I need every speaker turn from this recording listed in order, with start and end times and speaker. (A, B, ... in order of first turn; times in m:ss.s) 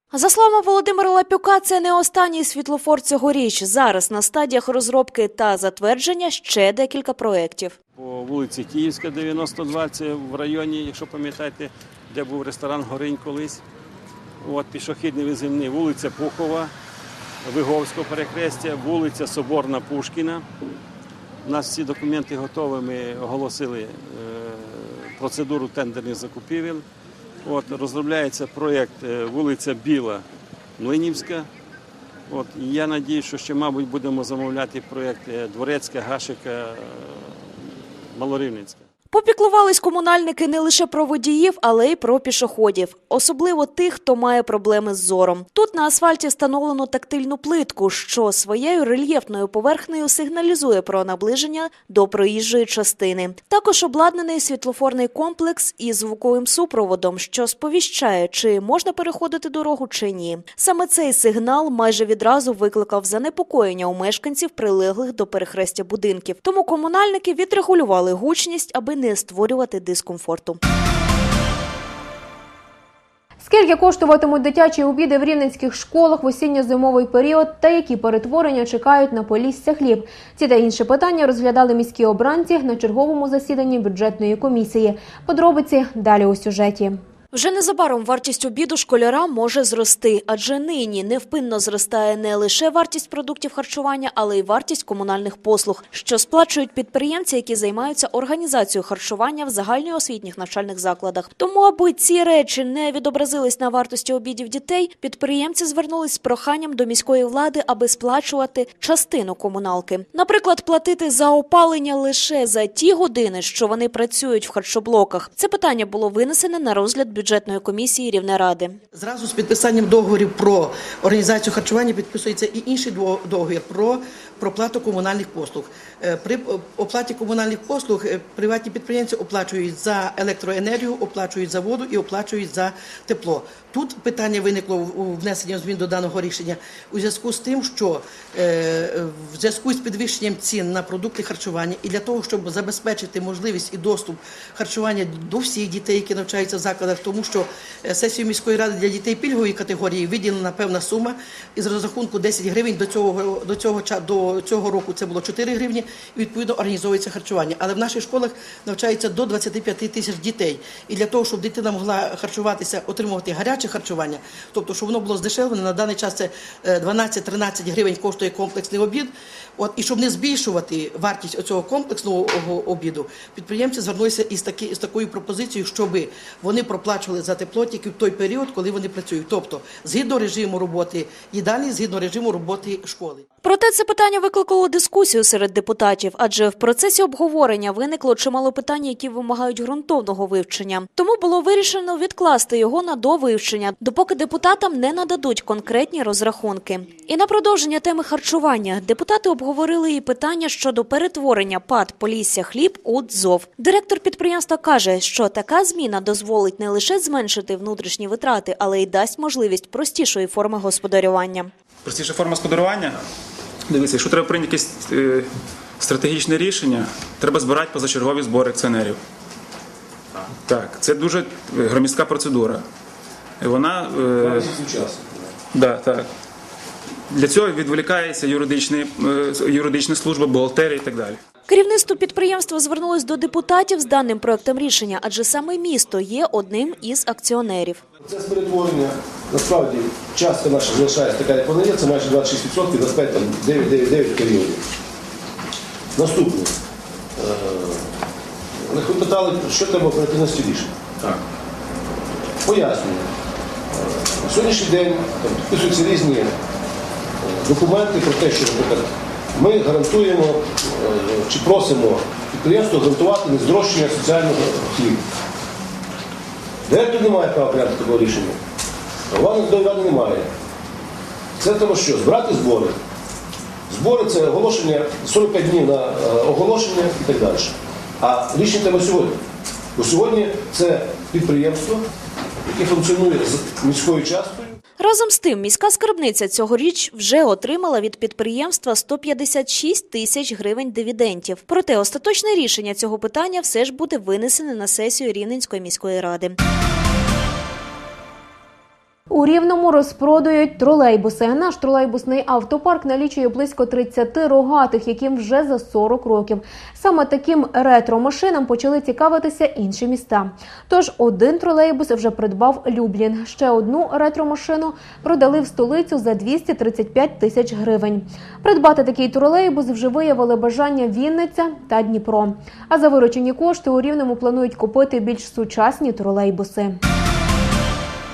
0:00.1-0:07.8 A
0:08.0-0:13.6 B
0:14.4-0:16.7 B
0:17.5-0:20.3 B
0:21.4-0:24.5 B
0:25.2-0:26.8 B
0:27.5-0:30.2 B
0:30.8-0:31.4 B
0:32.3-0:36.6 B
0:38.2-0:38.8 B
0:39.1-1:10.6 A
1:13.4-1:27.0 C
1:27.3-1:58.8 A
1:58.9-3:03.2 D
3:03.4-3:31.5 A
3:31.8-3:33.0 E
3:33.7-3:35.3 E
3:35.8-3:39.0 E
3:40.4-3:42.6 E
3:43.4-3:44.5 E
3:44.1-3:45.3 F
3:45.5-3:46.1 E
3:47.1-3:51.2 E
3:51.5-3:57.8 A
3:58.0-4:04.6 F
4:06.0-4:06.5 F
4:07.2-4:07.8 F
4:08.6-4:10.7 F
4:12.4-4:13.1 F
4:13.7-4:16.3 F
4:17.2-4:25.0 F
4:26.7-4:28.4 F
4:29.1-4:30.3 F
4:31.4-4:32.8 F
4:33.7-4:39.2 F
4:39.8-4:41.8 F
4:42.5-4:44.6 F
4:44.8-4:56.4 A
4:59.1-5:26.8 C